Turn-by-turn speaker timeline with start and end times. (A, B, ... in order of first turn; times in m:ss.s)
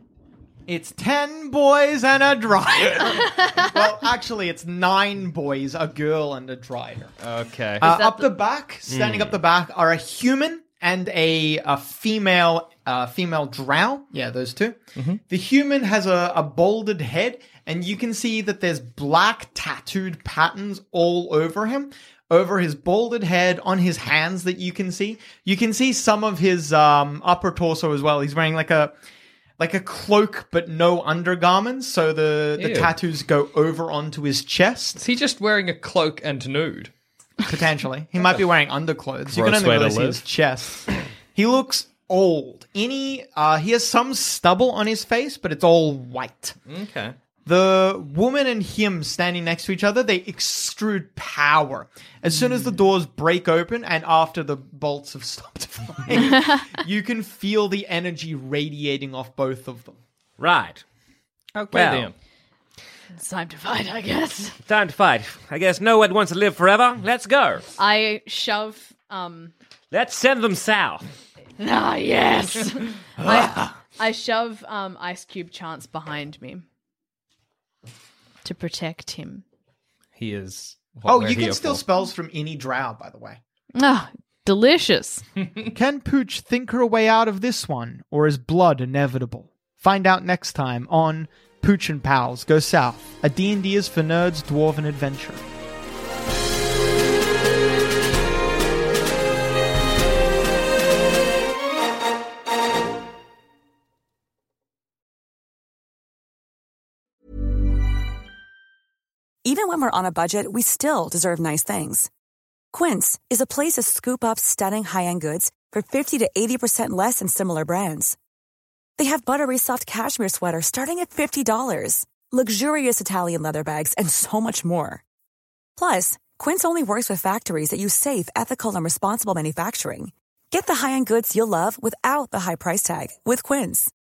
0:00.7-0:07.1 A
0:07.2-0:07.9 B
0:07.8-0:29.0 A
0:07.8-0:08.3 C
0:08.9-0:09.4 D
0:29.6-0:35.0 A
0:32.6-0:32.9 B
0:35.0-0:36.9 B
0:37.4-0:46.6 A
0:39.3-0:40.2 B
0:46.7-0:47.2 B
0:47.5-1:00.0 A
1:00.4-1:00.8 D
1:01.5-1:02.1 B
1:01.7-1:02.1 D
1:03.1-1:04.6 C
1:04.7-1:07.7 D
1:07.8-1:09.5 C
1:09.9-1:11.1 D
1:11.6-1:16.6 C
1:18.4-1:19.4 C
1:20.2-1:21.8 B
1:21.0-1:23.4 A
1:23.8-1:25.2 C
1:25.4-1:25.7 B
1:25.7-1:35.5 A
1:49.4-1:52.1 E
1:52.7-1:58.2 E
1:59.0-2:05.0 E
2:05.8-2:13.9 E